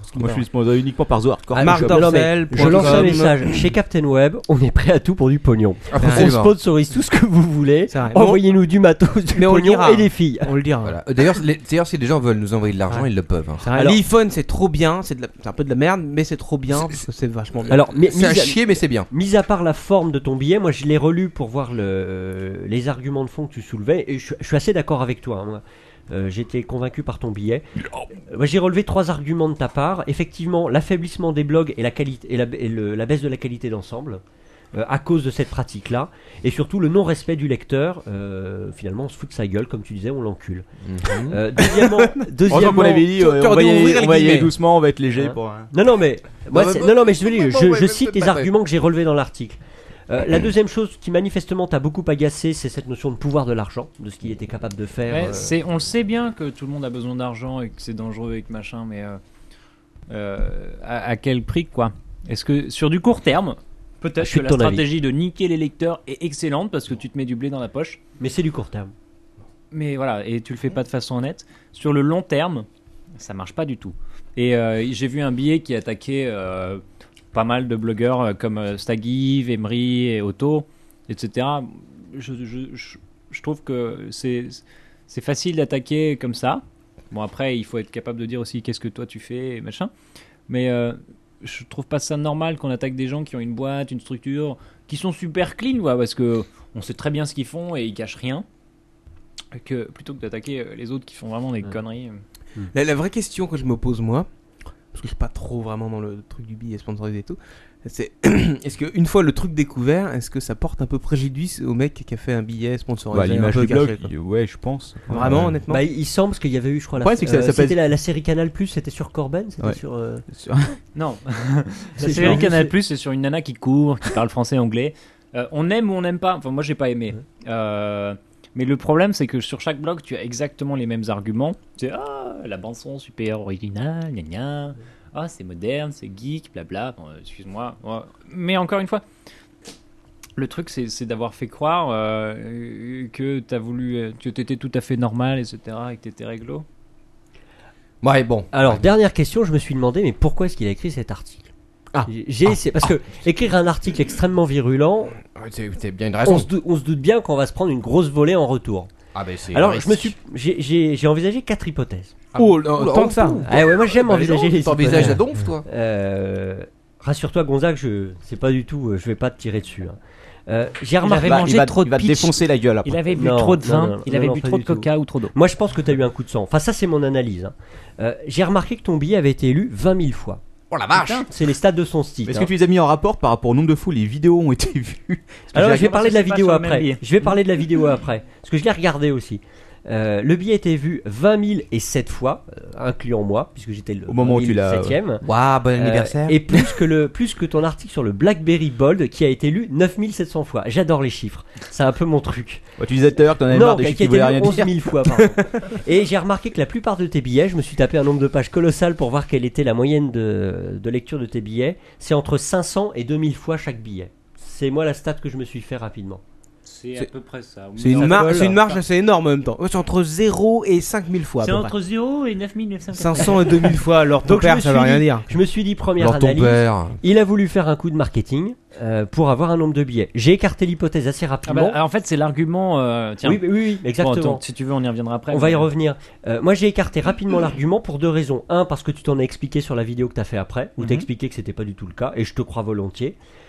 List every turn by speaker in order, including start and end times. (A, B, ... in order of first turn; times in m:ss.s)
0:00.1-0:02.3 A
0:01.6-0:03.6 B
0:01.6-0:10.5 C
0:02.6-0:03.1 D
0:05.9-0:06.6 D
0:06.0-0:06.4 B
0:07.9-0:08.5 B
0:09.3-0:11.0 B
0:10.8-0:13.6 D
0:13.6-0:17.8 B
0:13.7-0:14.0 C
0:17.7-0:27.6 C
0:18.0-0:19.1 D
0:28.3-0:34.2 C
0:34.7-0:40.7 C
0:40.8-0:41.4 D
0:41.3-0:43.1 C
0:41.6-0:44.5 B
0:42.5-0:45.7 A
0:45.2-0:55.6 C
0:46.5-0:48.5 D
0:55.1-0:59.2 E
1:00.1-1:08.0 E
1:04.2-1:04.8 C
1:08.2-1:08.9 C
1:09.7-1:12.7 E
1:13.2-1:16.8 E
1:17.3-1:29.9 E
1:30.5-1:38.4 E
1:39.5-1:42.2 E
1:42.7-1:44.3 B
1:44.9-1:54.1 B
1:53.1-1:55.6 A
1:55.1-1:55.8 B
1:55.7-2:00.2 C
1:57.0-1:57.8 A
2:00.3-2:00.8 A
2:01.0-2:19.0 E
2:02.0-2:02.8 C
2:20.4-2:26.6 E
2:28.0-2:28.8 D
2:28.5-2:31.5 C
2:32.1-2:35.2 C
2:35.2-2:36.5 D
2:36.2-2:38.9 C
2:39.1-2:40.2 D
2:39.5-2:42.3 C
2:42.4-2:45.6 D
2:42.4-2:43.5 B
2:43.4-2:51.6 C
2:51.0-2:55.3 E
2:51.2-2:53.0 A
2:53.1-3:00.4 C
3:00.7-3:01.3 D
3:00.9-3:01.3 E
3:01.0-3:02.5 C
3:02.2-3:05.9 A
3:05.5-3:22.7 C
3:05.7-3:07.3 E
3:14.1-3:15.0 A
3:15.2-3:16.6 D
3:22.8-3:24.7 A
3:23.5-3:36.2 C
3:36.7-3:38.8 E
3:37.8-3:41.7 B
3:37.9-3:38.6 C
3:41.4-3:43.8 E
3:42.9-3:45.3 B
3:44.2-3:51.8 C
3:46.0-3:47.0 D
3:51.5-3:53.5 E
3:53.2-3:54.4 C
3:54.0-3:55.7 E
3:55.3-4:03.2 C
4:00.8-4:01.1 E